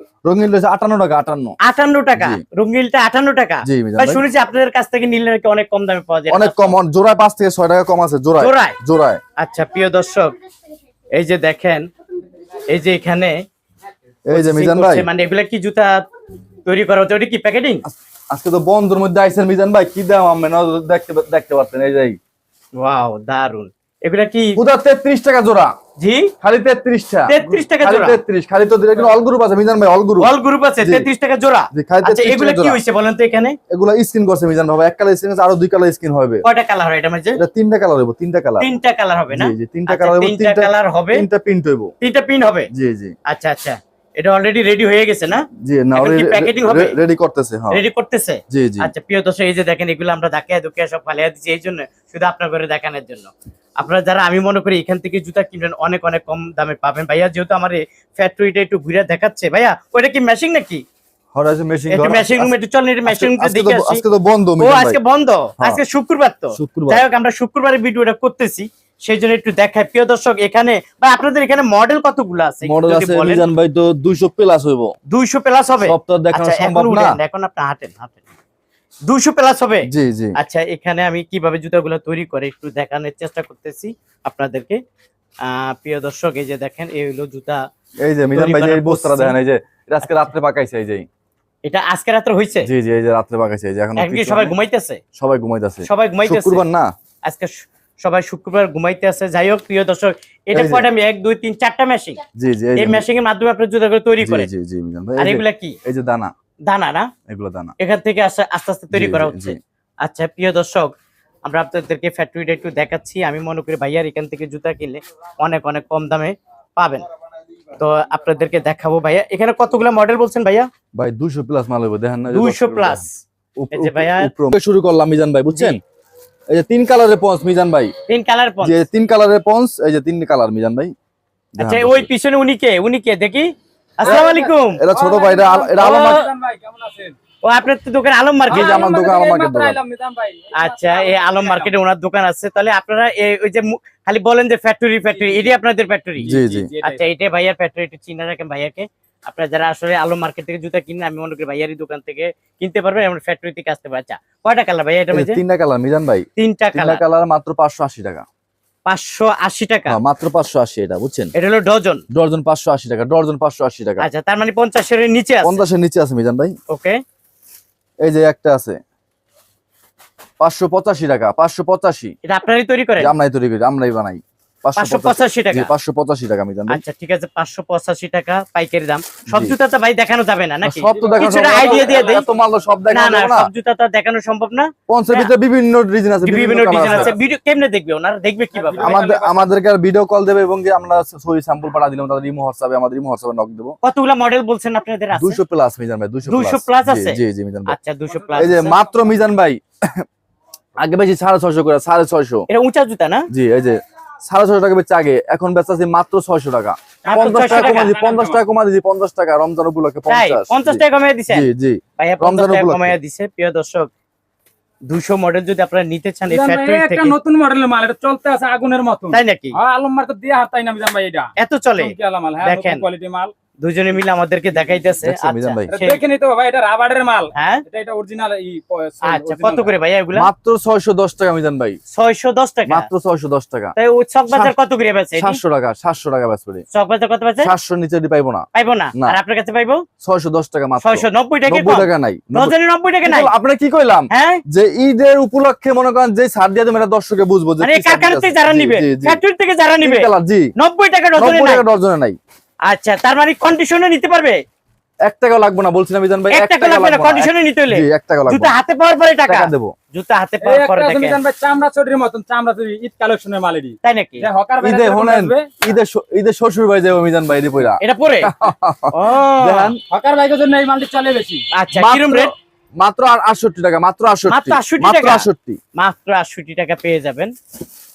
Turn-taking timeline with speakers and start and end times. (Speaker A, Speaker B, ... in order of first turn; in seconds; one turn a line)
Speaker A: 0.2-1.6
Speaker B: 1.6-6.7
Speaker A: 3.6-4.2
Speaker A: 6.3-9.2
Speaker B: 8.4-8.8
Speaker B: 9.4-10.3
Speaker B: 11.1-11.9
Speaker B: 12.7-13.4
Speaker A: 14.3-15.1
Speaker B: 14.3-16.1
Speaker B: 16.6-17.8
Speaker A: 17.9-22.2
Speaker B: 22.8-24.6
Speaker A: 24.6-25.7
Speaker B: 26.0-26.3
Speaker A: 26.4-31.1
Speaker B: 27.3-28.2
Speaker B: 30.2-33.6
Speaker A: 31.7-32.8
Speaker A: 33.7-36.4
Speaker B: 36.4-37.4
Speaker A: 37.4-38.7
Speaker B: 38.6-41.2
Speaker A: 39.3-41.9
Speaker B: 42.0-42.7
Speaker A: 42.7-43.1
Speaker B: 43.3-46.9
Speaker A: 45.6-47.8
Speaker B: 47.7-60.8
Speaker A: 48.5-48.9
Speaker A: 61.3-62.5
Speaker B: 61.9-64.0
Speaker A: 63.0-65.0
Speaker B: 64.6-73.5
Speaker A: 66.5-67.0
Speaker A: 72.6-74.9
Speaker B: 75.1-78.2
Speaker A: 75.8-77.2
Speaker B: 79.0-84.8
Speaker A: 79.9-80.3
Speaker B: 85.4-87.6
Speaker A: 88.0-91.1
Speaker B: 88.3-89.3
Speaker B: 91.6-92.7
Speaker A: 92.6-94.5
Speaker B: 94.0-95.0
Speaker A: 95.2-96.9
Speaker B: 95.8-96.6
Speaker B: 97.2-102.2
Speaker A: 100.5-100.9
Speaker A: 102.4-103.0
Speaker B: 102.8-104.5
Speaker A: 104.2-106.3
Speaker B: 105.2-105.8
Speaker B: 106.7-107.1
Speaker A: 107.3-107.7
Speaker B: 107.8-110.9
Speaker A: 108.9-109.6
Speaker B: 111.4-117.0
Speaker B: 117.7-120.7
Speaker A: 121.0-123.0
Speaker B: 122.3-123.2
Speaker A: 123.6-125.8
Speaker B: 123.7-124.3
Speaker A: 126.5-127.9
Speaker B: 128.1-128.8
Speaker A: 128.6-130.9
Speaker A: 131.6-132.1
Speaker B: 131.6-134.8
Speaker A: 134.0-136.2
Speaker C: 134.0-137.2
Speaker B: 135.8-136.2
Speaker B: 137.4-138.9
Speaker A: 138.5-139.8
Speaker C: 138.5-141.7
Speaker B: 140.5-155.4
Speaker C: 145.1-145.5
Speaker A: 146.2-146.7
Speaker C: 146.2-147.0
Speaker A: 155.1-158.2
Speaker B: 156.4-157.0
Speaker B: 158.8-160.0
Speaker A: 159.9-161.3
Speaker B: 161.3-162.0
Speaker A: 162.1-164.1
Speaker B: 164.0-165.6
Speaker A: 165.4-166.5
Speaker B: 166.7-167.0
Speaker A: 168.0-168.8
Speaker A: 170.4-172.1
Speaker B: 172.2-173.1
Speaker A: 173.0-176.8
Speaker B: 174.8-175.7
Speaker B: 176.7-182.2
Speaker A: 179.3-179.6
Speaker A: 180.6-183.5
Speaker C: 180.9-182.3
Speaker B: 182.9-185.3
Speaker A: 184.9-187.1
Speaker B: 186.2-189.0
Speaker C: 186.7-187.1
Speaker C: 188.5-189.4
Speaker A: 188.8-193.8
Speaker B: 193.8-195.4
Speaker A: 195.1-197.8
Speaker B: 196.2-198.8
Speaker C: 198.1-199.1
Speaker A: 198.3-200.0
Speaker A: 200.8-202.4
Speaker B: 202.5-203.3
Speaker A: 203.3-212.9
Speaker B: 207.0-207.9
Speaker C: 207.0-208.4
Speaker B: 210.1-213.9
Speaker B: 214.9-217.1
Speaker C: 216.3-223.3
Speaker B: 219.1-219.6
Speaker B: 221.4-222.8
Speaker B: 223.6-226.0
Speaker A: 225.0-225.7
Speaker C: 225.7-229.7
Speaker B: 227.3-227.6
Speaker B: 229.0-230.3
Speaker A: 230.2-231.8
Speaker B: 231.9-232.9
Speaker A: 232.7-233.7
Speaker B: 233.8-235.4
Speaker A: 235.2-236.6
Speaker B: 236.7-237.5
Speaker A: 237.4-238.4
Speaker B: 238.5-239.8
Speaker A: 240.0-242.5
Speaker B: 240.8-243.3
Speaker A: 243.0-249.2
Speaker B: 244.1-244.4
Speaker B: 247.6-251.6
Speaker A: 249.8-250.5
Speaker A: 251.2-252.2
Speaker B: 252.7-254.4
Speaker A: 255.0-258.5
Speaker B: 256.3-261.2
Speaker A: 259.2-259.7
Speaker C: 260.4-265.6
Speaker B: 263.8-264.3
Speaker A: 264.6-269.8
Speaker B: 267.8-268.3
Speaker B: 268.9-269.7
Speaker C: 269.9-271.4
Speaker B: 271.5-272.3
Speaker A: 271.7-275.6
Speaker B: 274.3-277.3